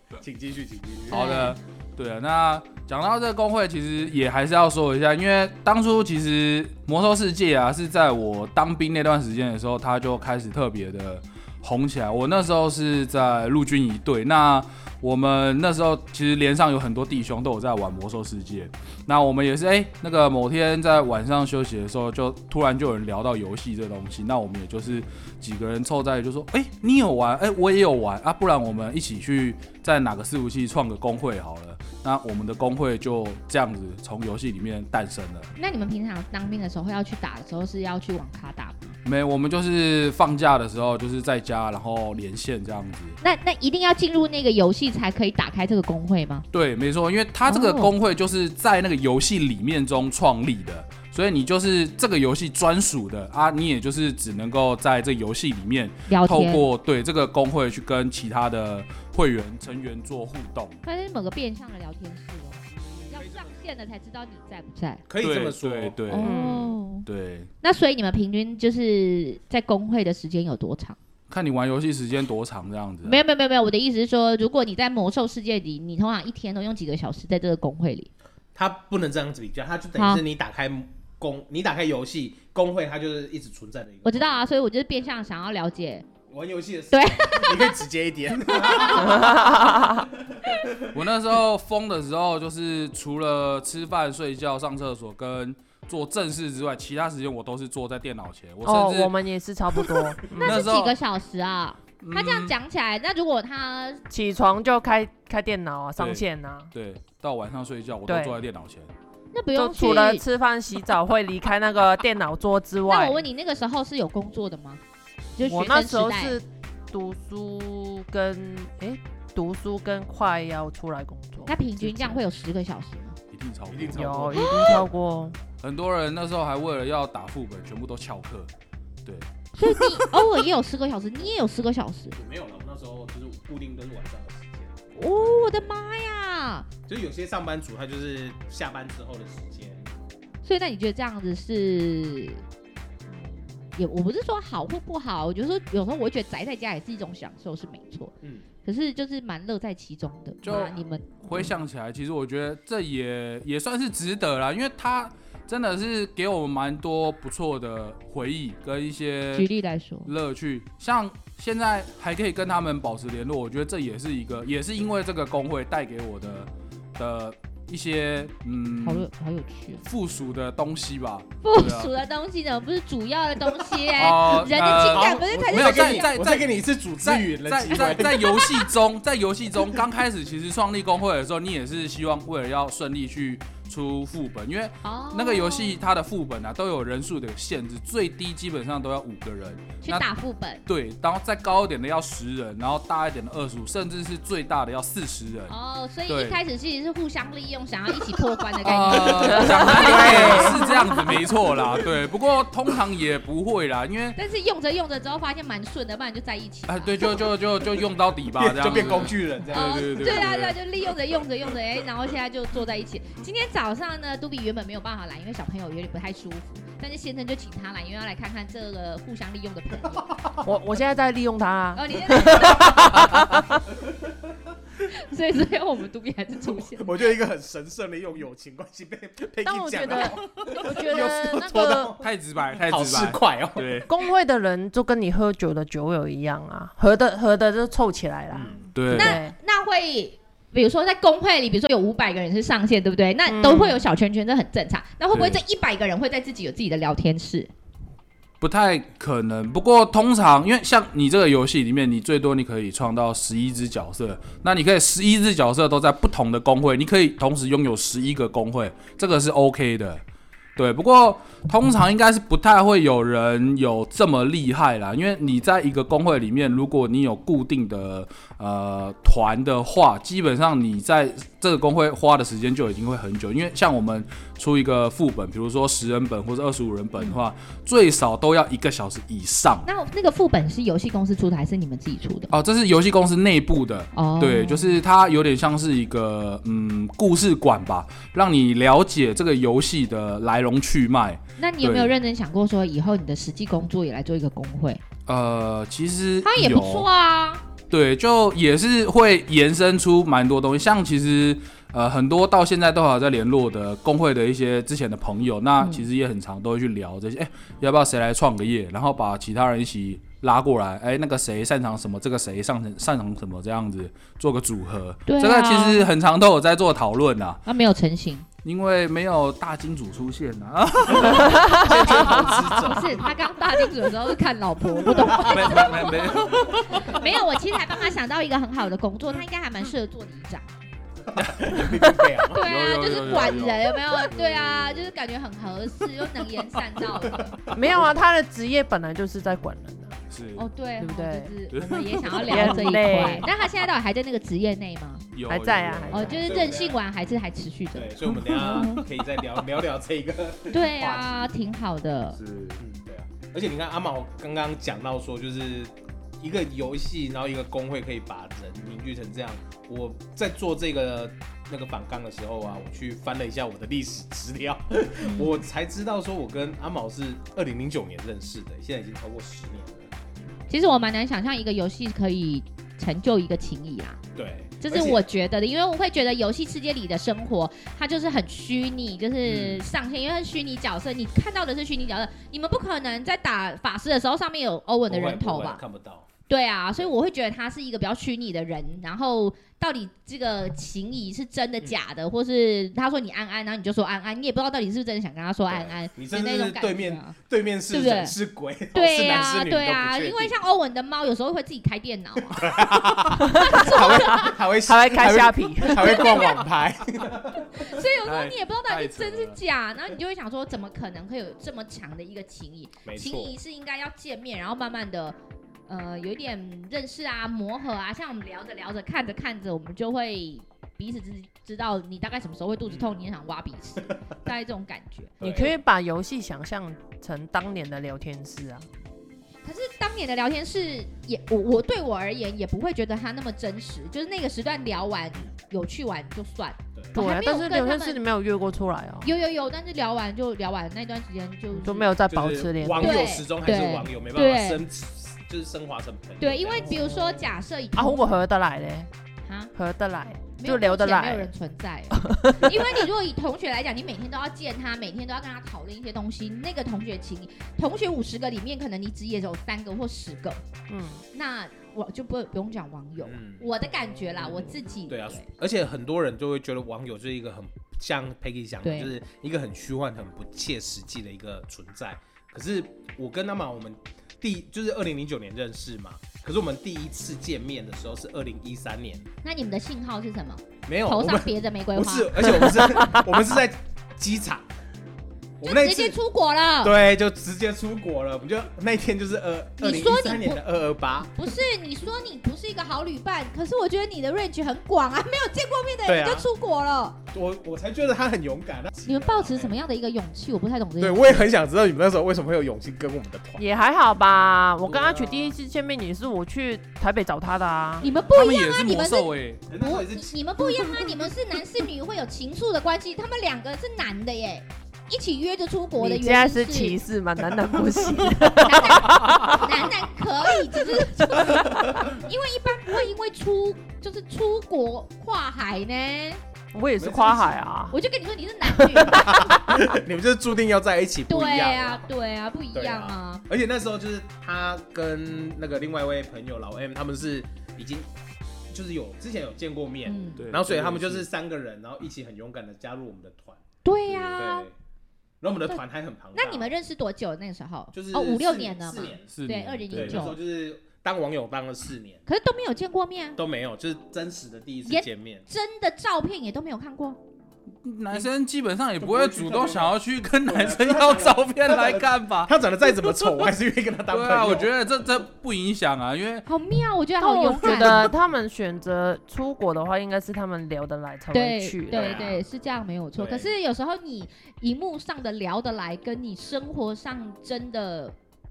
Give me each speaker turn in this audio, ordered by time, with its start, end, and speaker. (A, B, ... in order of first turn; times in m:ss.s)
0:00.2-0:01.5 A
0:01.1-0:35.5 B
0:01.1-0:01.6 C
0:35.6-0:39.0 C
0:39.0-0:43.2 B
0:43.2-0:46.5 C
0:46.5-1:00.8 B
0:47.5-0:47.9 C
0:56.1-0:56.7 C
1:00.8-1:05.0 C
1:02.8-1:03.6 A
1:05.1-1:06.0 A
1:05.2-1:06.4 B
1:06.1-1:07.1 C
1:06.2-1:06.8 D
1:07.0-1:07.5 B
1:07.6-1:11.0 C
1:11.3-1:13.2 B
1:13.0-1:18.1 C
1:18.6-1:24.4 A
1:20.0-1:20.2 C
1:24.0-1:26.0 C
1:26.3-1:31.0 A
1:26.9-1:27.8 C
1:28.5-1:29.5 C
1:29.0-1:30.1 D
1:30.8-1:39.2 B
1:38.6-1:40.6 D
1:39.7-1:41.0 B
1:40.4-1:44.0 C
1:42.0-1:42.5 B
1:44.1-1:46.7 D
1:46.0-1:48.9 B
1:48.1-1:48.4 D
1:49.3-1:50.2 C
1:49.6-1:53.2 D
1:52.9-1:54.8 C
1:55.4-1:56.4 C
1:55.4-2:02.2 D
2:01.5-2:03.2 C
2:03.3-2:04.2 B
2:03.7-2:04.9 A
2:04.0-2:05.4 D
2:04.4-2:04.8 C
2:05.6-2:08.5 B
2:09.6-2:12.2 C
2:12.2-2:15.7 A
2:15.0-2:16.7 C
2:16.9-2:19.9 A
2:20.4-2:22.4 C
2:23.1-2:28.1 C
2:28.6-2:31.5 C
2:30.4-2:39.5 B
2:39.3-2:40.1 C
2:40.0-2:49.1 B
2:48.8-2:49.8 C
2:49.8-2:51.9 B
2:51.4-2:56.2 C
2:53.8-2:58.5 A
2:54.0-2:56.5 B
2:57.0-3:10.1 B
2:58.0-2:58.5 C
3:04.8-3:05.9 C
3:09.8-3:10.6 C
3:10.7-3:15.5 B
3:15.5-3:20.7 C
3:16.1-3:16.4 B
3:18.6-3:24.2 B
3:19.3-3:20.6 D
3:19.8-3:20.4 A
3:24.2-3:27.0 C
3:26.7-3:30.6 B
3:28.4-3:30.3 A
3:28.8-3:40.2 C
3:40.4-3:43.6 D
3:41.7-3:43.3 C
3:43.8-3:44.2 A
3:44.8-3:47.1 C
3:46.6-3:53.8 A
3:49.4-3:51.9 D
3:52.0-3:53.9 B
3:53.9-3:59.4 D
3:58.3-3:58.7 A
3:58.8-3:59.2 B
3:58.9-4:07.5 C
4:03.3-4:03.8 D
4:05.1-4:05.4 B
4:08.4-4:20.0 B
4:20.6-4:39.7 B
4:39.6-4:42.3 C
4:42.3-4:51.9 B
4:43.9-4:44.8 C
4:51.4-4:54.8 C
4:55.1-4:56.9 B
4:56.2-4:57.4 C
4:57.7-5:17.4 B
5:15.1-5:15.9 C
5:17.4-5:18.3 C
5:18.4-5:22.3 B
5:21.3-5:23.1 A
5:22.5-5:30.5 C
5:25.0-5:26.9 A
5:25.1-5:27.0 B
5:31.1-5:32.4 A
5:32.2-5:37.4 C
5:32.4-5:34.9 B
5:37.2-5:37.5 A
5:37.5-5:40.0 D
5:40.1-5:40.5 B
5:40.4-5:45.1 C
5:40.8-5:41.3 D
5:41.5-5:43.1 B
5:42.1-5:43.3 D
5:45.1-5:46.3 B
5:45.3-5:46.4 D
5:45.9-5:48.8 C
5:46.2-5:46.8 A
5:47.7-5:51.4 A
5:48.3-5:48.7 D
5:50.5-5:52.2 C
5:52.2-5:52.6 B
5:52.6-6:09.9 A
6:05.0-6:05.3 C
6:10.5-6:14.0 C
6:14.2-6:15.0 A
6:14.6-6:25.6 C
6:24.9-6:26.1 A
6:26.3-6:37.2 C
6:35.5-6:40.4 A
6:37.7-6:38.2 C
6:38.7-6:44.4 C
6:42.4-6:47.8 A
6:43.2-6:46.2 D
6:45.8-6:46.4 C
6:47.4-6:55.2 C
6:48.0-6:49.4 B
6:52.8-6:53.4 A
6:55.7-7:05.2 C
7:02.7-7:03.0 A
7:05.2-7:05.6 A
7:05.2-7:08.7 D
7:09.4-7:18.0 C
7:16.8-7:17.0 A
7:17.0-7:19.1 D
7:19.0-7:21.9 C
7:21.6-7:23.1 D
7:22.1-7:26.8 A
7:22.8-7:24.6 C
7:26.2-7:28.1 C
7:26.7-7:27.2 D
7:27.7-7:28.9 D
7:29.3-7:29.5 C
7:29.6-7:31.3 D
7:30.4-7:40.4 C
7:32.0-7:32.8 D
7:40.7-7:41.0 D
7:41.1-7:45.3 C
7:43.0-7:43.5 A
7:44.9-7:59.1 A
7:48.6-7:48.9 C
7:59.2-8:02.9 C
8:00.7-8:04.5 A
8:05.4-8:06.0 A
8:05.4-8:06.8 C
8:06.6-8:11.1 A
8:09.6-8:10.4 C
8:11.1-8:17.0 C
8:15.8-8:16.3 A
8:17.1-8:19.6 A
8:18.8-8:21.3 C
8:20.8-8:23.5 A
8:23.4-8:27.9 D
8:24.6-8:25.4 A
8:27.8-8:36.8 C
8:28.1-8:29.4 B
8:29.5-8:30.4 A
8:35.8-8:39.7 D
8:38.4-8:46.2 C
8:40.4-8:41.7 D
8:46.5-8:47.8 D
8:46.8-8:47.4 A
8:47.7-8:49.3 C
8:48.5-8:49.6 D
8:48.8-8:51.9 A
8:51.1-8:53.2 C
8:52.5-8:57.9 A
8:58.5-9:03.4 A
8:59.8-9:00.3 C
9:00.2-9:01.1 B
9:03.6-9:04.5 C
9:03.9-9:04.2 B
9:04.1-9:04.5 A
9:05.2-9:06.5 A
9:06.1-9:10.2 C
9:07.7-9:09.1 A
9:09.1-9:10.1 B
9:09.7-9:12.0 A
9:12.1-9:13.2 C
9:13.2-9:15.2 A
9:14.6-9:17.0 C
9:17.6-9:23.3 B
9:18.8-9:24.5 A
9:23.9-9:26.3 B
9:26.3-9:27.9 C
9:27.0-9:32.0 D
9:31.1-9:38.0 C
9:31.7-9:32.2 A
9:33.0-9:33.3 A